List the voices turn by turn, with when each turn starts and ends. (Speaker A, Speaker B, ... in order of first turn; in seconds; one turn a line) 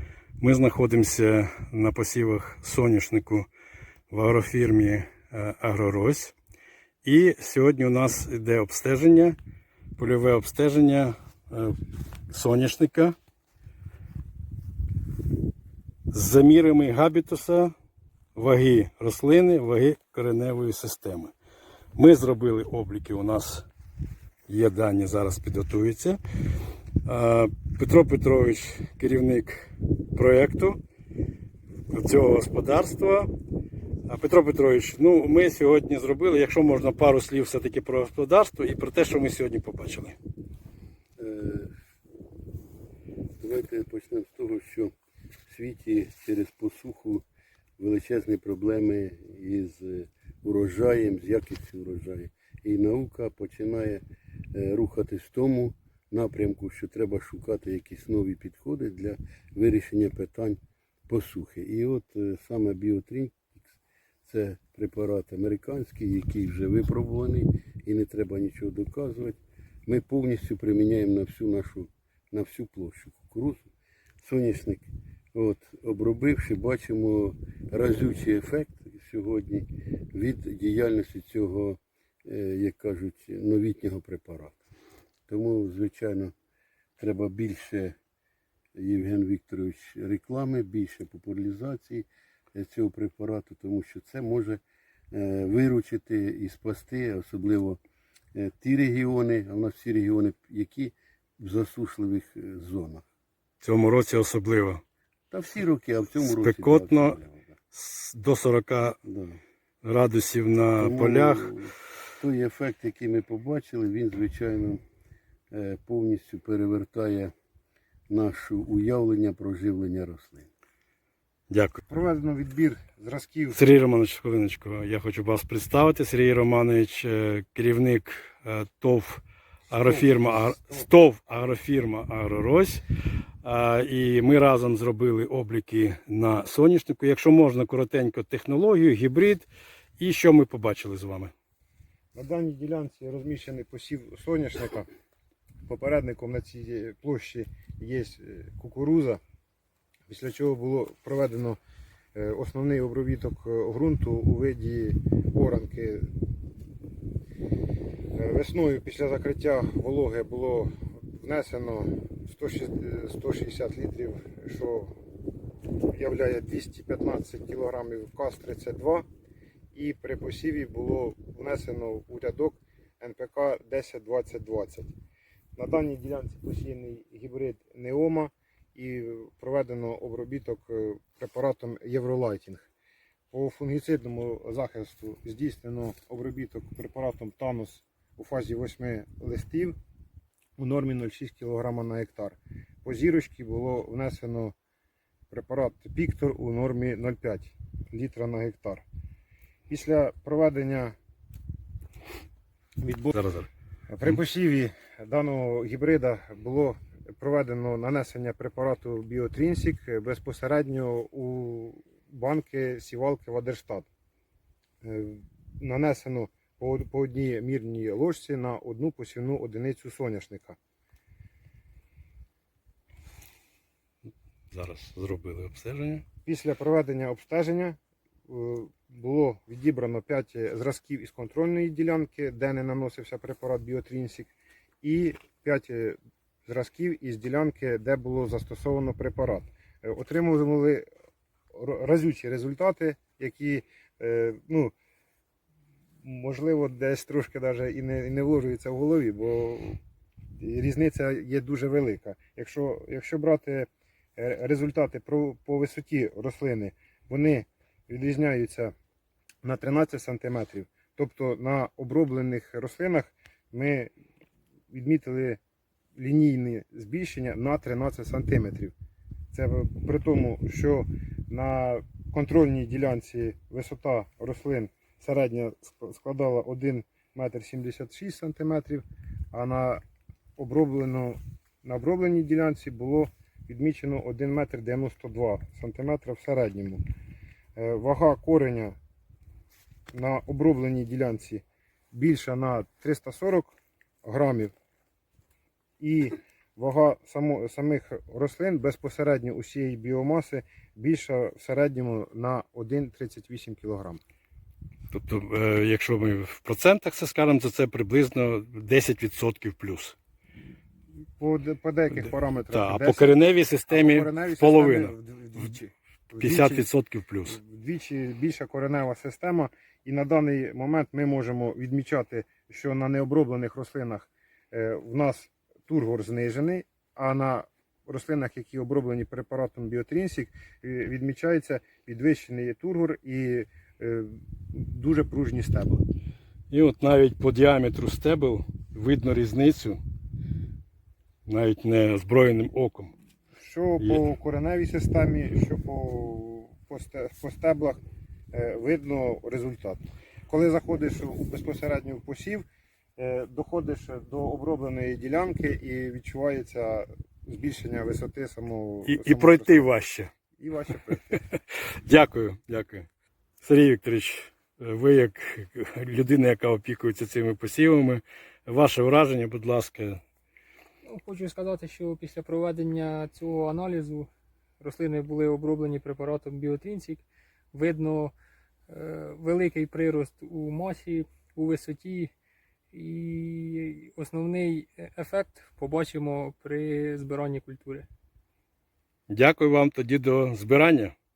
Speaker A: 0.4-3.5
Speaker A: 4.1-6.3
Speaker A: 7.0-9.4
Speaker A: 10.0-11.8
Speaker A: 12.3-13.2
Speaker A: 16.1-17.7
Speaker A: 18.4-21.3
Speaker A: 22.0-23.7
Speaker A: 24.5-26.2
Speaker A: 27.1-30.8
Speaker A: 31.9-33.3
Speaker A: 34.1-40.2
Speaker B: 41.2-41.7
Speaker B: 43.4-44.9
Speaker B: 45.5-47.2
Speaker B: 47.8-54.0
Speaker B: 54.5-73.7
Speaker B: 74.2-84.6
Speaker B: 85.3-86.3
Speaker B: 87.0-88.0
Speaker B: 88.8-97.8
Speaker B: 98.3-103.0
Speaker A: 103.6-104.8
Speaker B: 105.3-107.5
Speaker A: 106.2-107.2
Speaker A: 107.7-109.0
Speaker B: 109.0-109.4
Speaker A: 109.8-111.5
Speaker B: 110.8-114.8
Speaker B: 115.5-117.3
Speaker B: 118.1-120.5
Speaker A: 121.5-121.8
Speaker C: 121.9-123.6
Speaker A: 123.5-132.8
Speaker C: 129.8-130.9
Speaker A: 133.4-141.3
Speaker C: 142.2-144.9
Speaker C: 145.7-149.2
Speaker C: 150.1-151.6
Speaker C: 152.2-156.2
Speaker C: 158.1-165.0
Speaker C: 165.9-169.1
Speaker C: 169.7-174.9
Speaker C: 175.6-182.7
Speaker C: 183.3-189.8
Speaker C: 190.6-194.5
Speaker C: 195.3-198.8
Speaker C: 199.7-200.9
Speaker C: 202.8-203.2
Speaker A: 203.1-203.5
Speaker C: 203.9-213.9
Speaker C: 214.8-220.6
Speaker A: 224.5-226.1
Speaker C: 226.2-240.9
Speaker C: 241.5-244.8
Speaker C: 246.0-249.8
Speaker C: 250.3-258.7
Speaker C: 259.4-263.9
Speaker C: 264.7-265.4
Speaker C: 266.0-268.7
Speaker C: 269.3-279.8
Speaker C: 280.4-286.8
Speaker C: 287.6-288.8
Speaker C: 289.9-294.5
Speaker C: 295.8-304.0
Speaker A: 304.9-309.9
Speaker C: 311.2-316.7
Speaker A: 312.0-314.9
Speaker A: 316.2-317.4
Speaker C: 317.2-335.8
Speaker A: 336.5-339.8
Speaker A: 341.3-342.9
Speaker C: 343.4-347.8
Speaker C: 348.3-352.4
Speaker C: 353.0-359.7
Speaker A: 358.9-360.1
Speaker C: 360.4-361.2
Speaker A: 361.1-362.9
Speaker A: 363.4-370.0
Speaker D: 370.9-374.1
Speaker D: 374.6-378.1
Speaker D: 378.7-382.1
Speaker D: 382.7-387.9
Speaker A: 389.1-390.9